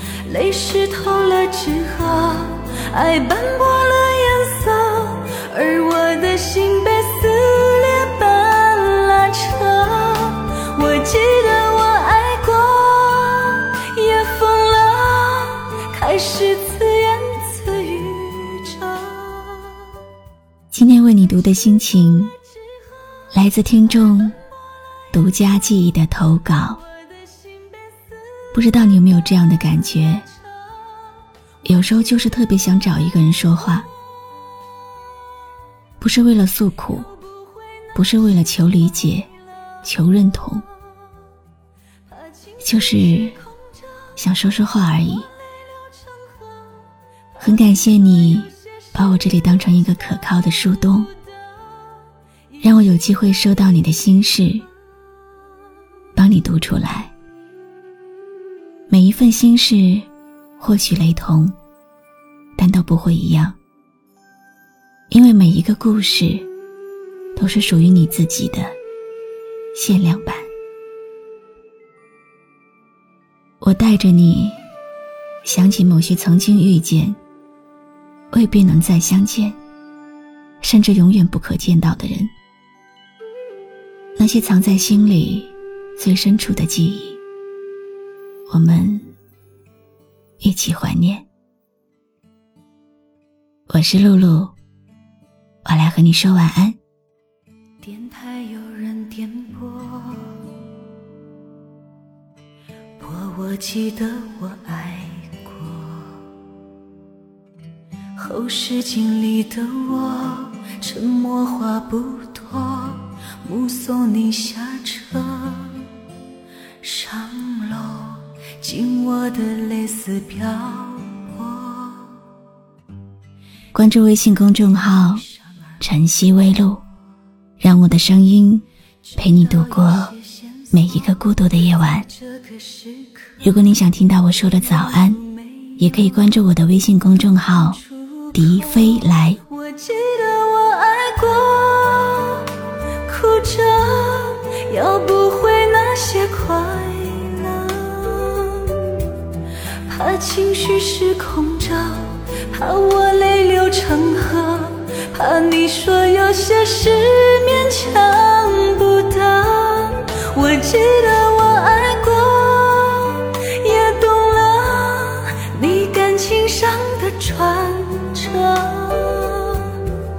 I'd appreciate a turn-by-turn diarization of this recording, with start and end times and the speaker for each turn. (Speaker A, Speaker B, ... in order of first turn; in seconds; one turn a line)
Speaker A: 0.2-20.0
Speaker B: 20.7-22.4
Speaker B: 23.3-24.4
Speaker B: 25.1-26.8
Speaker B: 28.5-30.3
Speaker B: 31.6-33.9
Speaker B: 36.0-37.1
Speaker B: 37.9-39.3
Speaker B: 39.8-40.6
Speaker A: 42.4-43.2
Speaker B: 42.6-43.4
Speaker B: 44.1-45.3
Speaker B: 47.4-51.1
Speaker B: 52.6-54.7
Speaker B: 56.1-57.1
Speaker B: 58.9-60.1
Speaker B: 60.6-61.5
Speaker B: 62.5-63.6
Speaker B: 65.1-66.5
Speaker B: 67.3-68.8
Speaker B: 69.7-70.5
Speaker B: 73.6-74.6
Speaker B: 75.4-77.2
Speaker B: 78.3-79.6
Speaker B: 80.6-82.3
Speaker B: 84.2-87.2
Speaker B: 88.5-89.2
Speaker B: 90.4-91.3
Speaker B: 93.7-94.5
Speaker B: 95.6-96.8
Speaker A: 97.8-100.5
Speaker A: 103.0-106.2
Speaker A: 108.2-115.9
Speaker A: 116.8-122.2
Speaker B: 123.7-125.2
Speaker B: 125.8-126.8
Speaker B: 127.6-128.6
Speaker B: 129.2-130.1
Speaker A: 129.2-131.2
Speaker B: 130.7-132.1
Speaker A: 132.1-133.4
Speaker B: 133.4-135.2
Speaker A: 134.5-135.8
Speaker B: 135.8-137.8
Speaker A: 138.0-139.0
Speaker B: 138.3-139.4
Speaker A: 139.5-170.0